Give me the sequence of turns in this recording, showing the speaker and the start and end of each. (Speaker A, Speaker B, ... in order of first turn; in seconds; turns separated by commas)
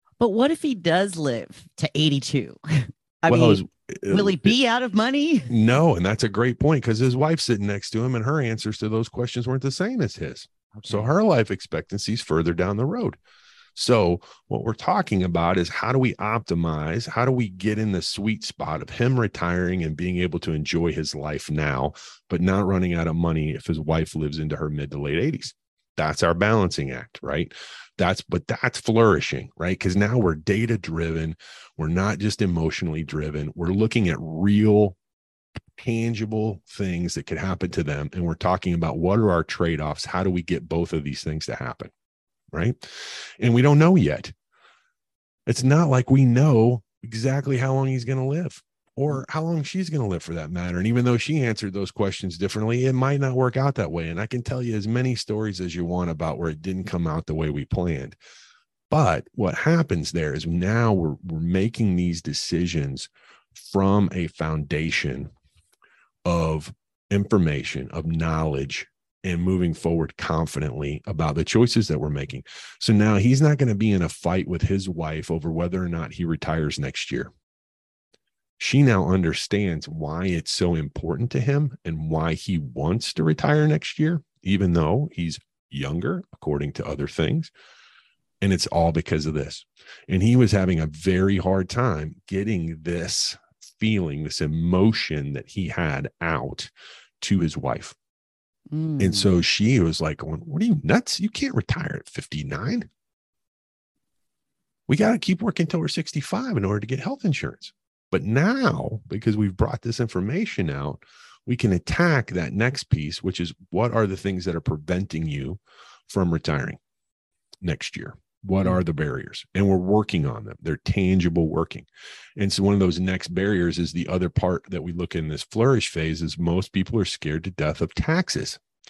Speaker A: 0.2-5.5, Speaker B: 3.2-4.5, Speaker B: 5.5-13.2, Speaker A: 10.7-11.1, Speaker B: 13.8-35.0, Speaker B: 35.8-41.9, Speaker B: 42.5-44.3, Speaker B: 45.5-58.1, Speaker B: 58.9-65.3, Speaker B: 66.2-77.3, Speaker B: 78.6-87.5, Speaker B: 88.4-97.9, Speaker A: 98.7-99.3, Speaker B: 99.0-102.9, Speaker B: 104.9-116.8, Speaker B: 117.6-128.6